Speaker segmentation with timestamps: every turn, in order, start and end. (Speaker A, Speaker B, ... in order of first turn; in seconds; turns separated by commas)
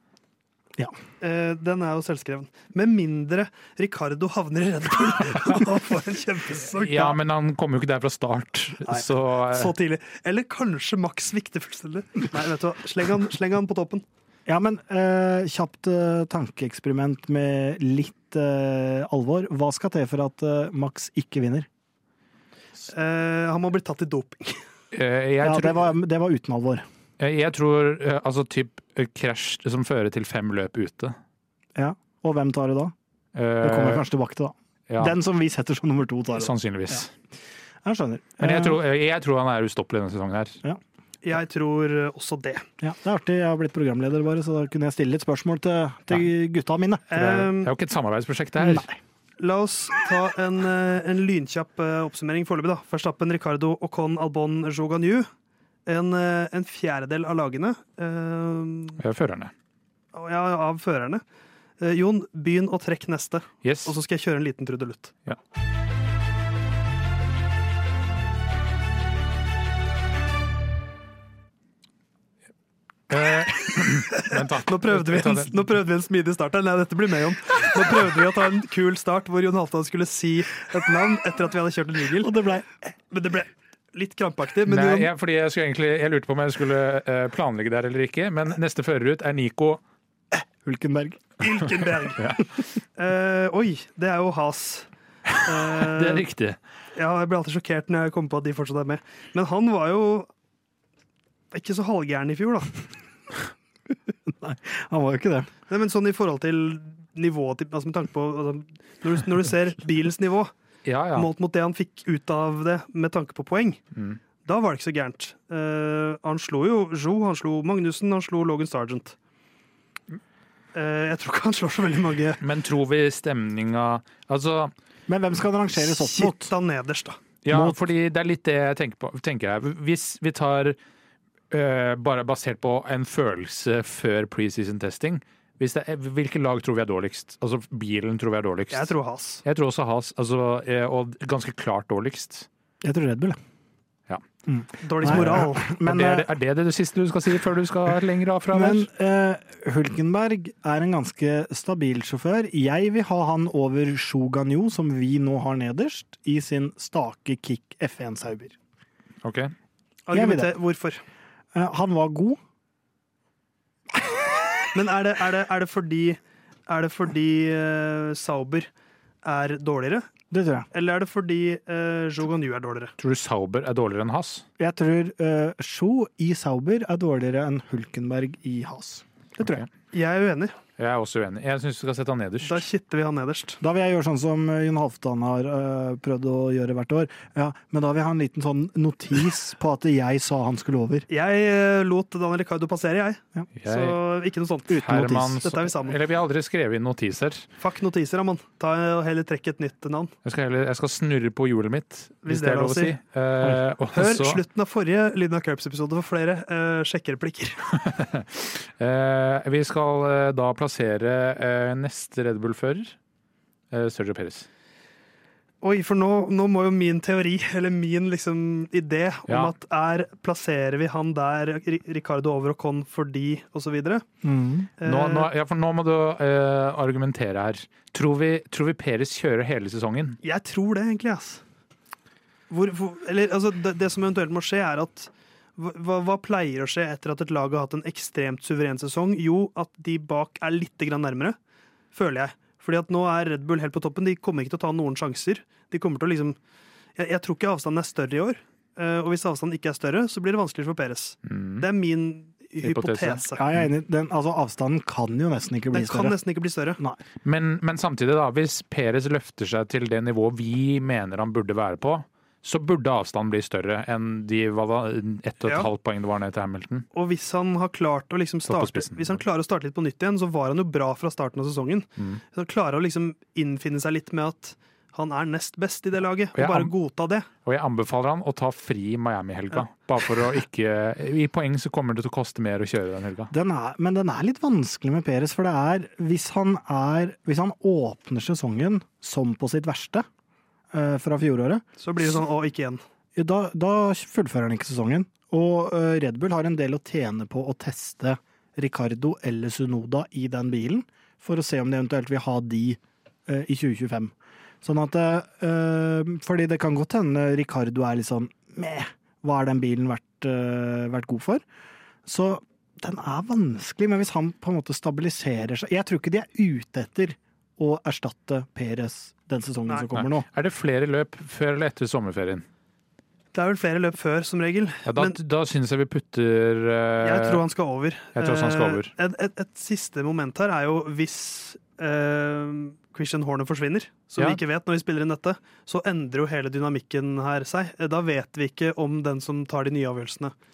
Speaker A: 1.2-7.2, Speaker B: 6.7-9.7, Speaker A: 8.8-14.0, Speaker C: 14.5-21.7, Speaker A: 22.9-24.6, Speaker B: 24.9-25.9, Speaker C: 25.4-26.8, Speaker B: 27.2-31.2, Speaker C: 31.8-32.9, Speaker B: 33.4-34.0, Speaker C: 33.6-37.0, Speaker B: 34.9-35.1, Speaker B: 36.4-37.1, Speaker C: 37.8-38.8, Speaker B: 38.4-40.6, Speaker A: 41.2-42.7, Speaker C: 42.8-47.1, Speaker A: 47.1-47.7, Speaker B: 47.1-48.9, Speaker C: 48.6-49.0, Speaker A: 49.4-55.3, Speaker A: 55.9-59.0, Speaker B: 59.0-59.5, Speaker A: 60.1-61.2, Speaker A: 61.8-65.1, Speaker B: 63.6-64.0, Speaker B: 73.1-75.7, Speaker A: 73.6-82.4, Speaker C: 82.2-82.7, Speaker A: 83.1-85.1, Speaker B: 84.7-89.8, Speaker C: 90.6-91.2, Speaker A: 91.4-92.3, Speaker A: 93.0-94.9, Speaker A: 95.4-96.3, Speaker B: 95.7-96.6, Speaker A: 97.0-100.3, Speaker A: 101.5-102.8, Speaker C: 104.3-105.5, Speaker A: 105.7-110.5, Speaker B: 110.8-111.3, Speaker A: 111.1-113.8, Speaker B: 113.9-114.2, Speaker A: 114.5-119.2, Speaker A: 120.8-122.4, Speaker B: 122.4-124.7, Speaker C: 125.1-126.5, Speaker A: 125.8-127.2, Speaker B: 127.4-130.8, Speaker C: 127.5-127.8, Speaker B: 131.5-138.9, Speaker A: 138.7-139.4, Speaker B: 139.4-142.5, Speaker C: 142.8-143.4, Speaker C: 144.5-146.3, Speaker A: 144.8-145.7, Speaker B: 145.0-148.9, Speaker C: 148.5-158.6, Speaker B: 159.2-159.5, Speaker A: 160.1-161.0, Speaker C: 160.1-160.6, Speaker C: 161.5-162.4, Speaker A: 164.7-168.7, Speaker A: 169.2-170.1, Speaker C: 170.3-170.7, Speaker A: 170.7-172.9, Speaker B: 173.0-174.4, Speaker C: 174.6-179.6, Speaker A: 179.9-180.6, Speaker B: 180.8-182.6, Speaker A: 182.4-183.6, Speaker C: 183.6-191.1, Speaker A: 191.1-194.8, Speaker B: 193.6-194.0, Speaker C: 194.7-195.4, Speaker B: 194.8-197.5, Speaker A: 195.4-196.0, Speaker A: 197.6-200.1, Speaker B: 200.2-204.4, Speaker A: 202.2-203.0, Speaker A: 203.9-207.7, Speaker B: 207.7-213.0, Speaker B: 213.7-214.5, Speaker A: 215.6-224.1, Speaker B: 219.3-219.5, Speaker C: 224.2-224.7, Speaker A: 224.8-225.3, Speaker B: 224.8-230.2, Speaker A: 230.2-231.4, Speaker A: 232.5-241.4, Speaker A: 241.9-246.4, Speaker A: 247.0-253.4, Speaker B: 251.2-251.7, Speaker B: 252.6-253.7, Speaker C: 253.4-256.2, Speaker A: 255.7-256.8, Speaker B: 257.2-266.9, Speaker A: 266.9-277.3, Speaker B: 268.5-269.2, Speaker B: 276.4-276.7, Speaker B: 277.4-283.3, Speaker C: 283.3-290.1, Speaker C: 290.7-291.6, Speaker A: 291.8-292.8, Speaker C: 293.1-311.4, Speaker C: 312.1-320.3, Speaker B: 319.9-322.4, Speaker A: 323.3-325.2, Speaker B: 324.9-327.4, Speaker A: 327.0-340.4, Speaker B: 328.1-328.9